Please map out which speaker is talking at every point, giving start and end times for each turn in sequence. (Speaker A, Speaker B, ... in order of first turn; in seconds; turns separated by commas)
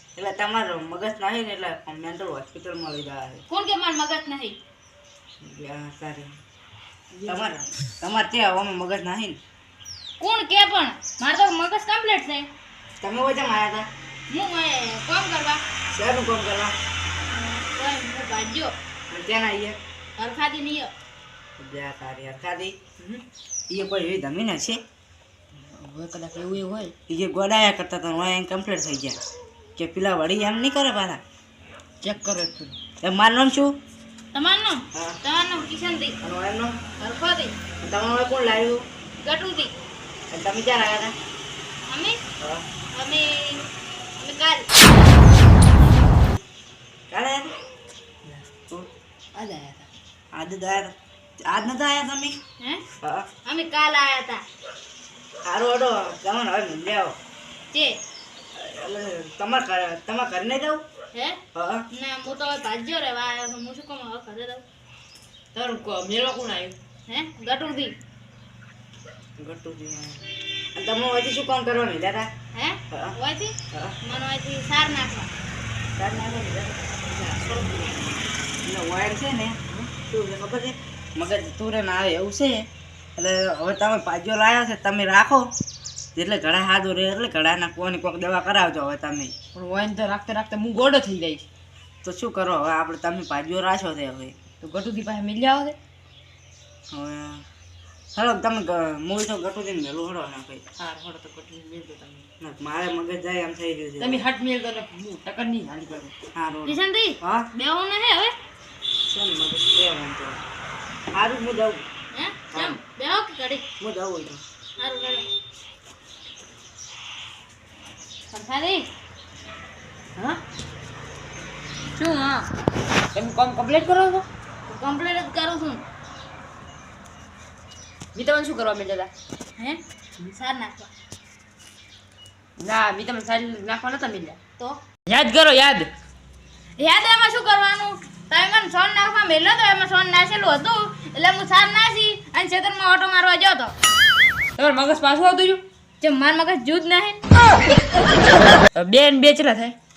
Speaker A: 0.2-3.4, Speaker B: 3.5-4.6, Speaker A: 5.4-6.3, Speaker C: 7.1-7.7, Speaker A: 7.3-9.4, Speaker B: 10.2-12.5, Speaker A: 13.0-13.9, Speaker B: 14.3-15.6, Speaker A: 15.9-16.8, Speaker B: 17.3-18.7, Speaker A: 19.1-19.8, Speaker B: 20.2-20.9, Speaker A: 21.6-22.8, Speaker A: 23.7-24.8, Speaker C: 25.6-26.9, Speaker A: 27.1-29.2, Speaker A: 29.8-31.2, Speaker C: 32.0-32.8, Speaker A: 33.0-33.8, Speaker B: 34.3-36.2, Speaker A: 34.9-35.2, Speaker A: 36.2-36.8, Speaker B: 37.0-37.5, Speaker A: 37.8-38.9, Speaker B: 39.2-39.7, Speaker A: 40.3-41.1, Speaker B: 41.9-42.2, Speaker A: 42.4-42.6, Speaker B: 42.9-44.7, Speaker A: 47.1-47.5, Speaker C: 49.3-49.9, Speaker A: 50.3-52.4, Speaker A: 53.0-53.3, Speaker B: 53.4-54.4, Speaker A: 55.5-57.2, Speaker B: 57.7-58.0, Speaker A: 58.5-60.8, Speaker B: 61.1-64.7, Speaker A: 61.5-61.9, Speaker C: 65.5-66.8, Speaker B: 67.1-68.0, Speaker A: 69.4-72.3, Speaker B: 72.5-75.3, Speaker A: 72.9-73.2, Speaker A: 73.7-74.0, Speaker A: 76.0-77.7, Speaker A: 78.6-85.5, Speaker A: 86.2-89.3, Speaker C: 89.5-91.5, Speaker A: 92.0-94.3, Speaker C: 94.6-95.8, Speaker A: 96.9-97.5, Speaker A: 98.2-100.6, Speaker C: 100.8-102.3, Speaker A: 102.4-104.2, Speaker C: 104.0-106.1, Speaker A: 106.3-107.5, Speaker B: 106.7-108.3, Speaker A: 109.0-110.4, Speaker A: 111.1-111.8, Speaker B: 112.1-113.7, Speaker A: 112.5-112.8, Speaker A: 113.8-114.4, Speaker B: 114.8-115.3, Speaker B: 118.3-118.9, Speaker C: 120.2-120.4, Speaker B: 122.0-122.5, Speaker C: 123.1-124.3, Speaker B: 124.7-125.8, Speaker C: 128.2-129.1, Speaker B: 129.6-130.9, Speaker C: 132.6-134.4, Speaker C: 135.1-135.9, Speaker B: 136.8-143.7, Speaker C: 144.6-145.6, Speaker B: 146.0-147.2, Speaker C: 148.7-149.8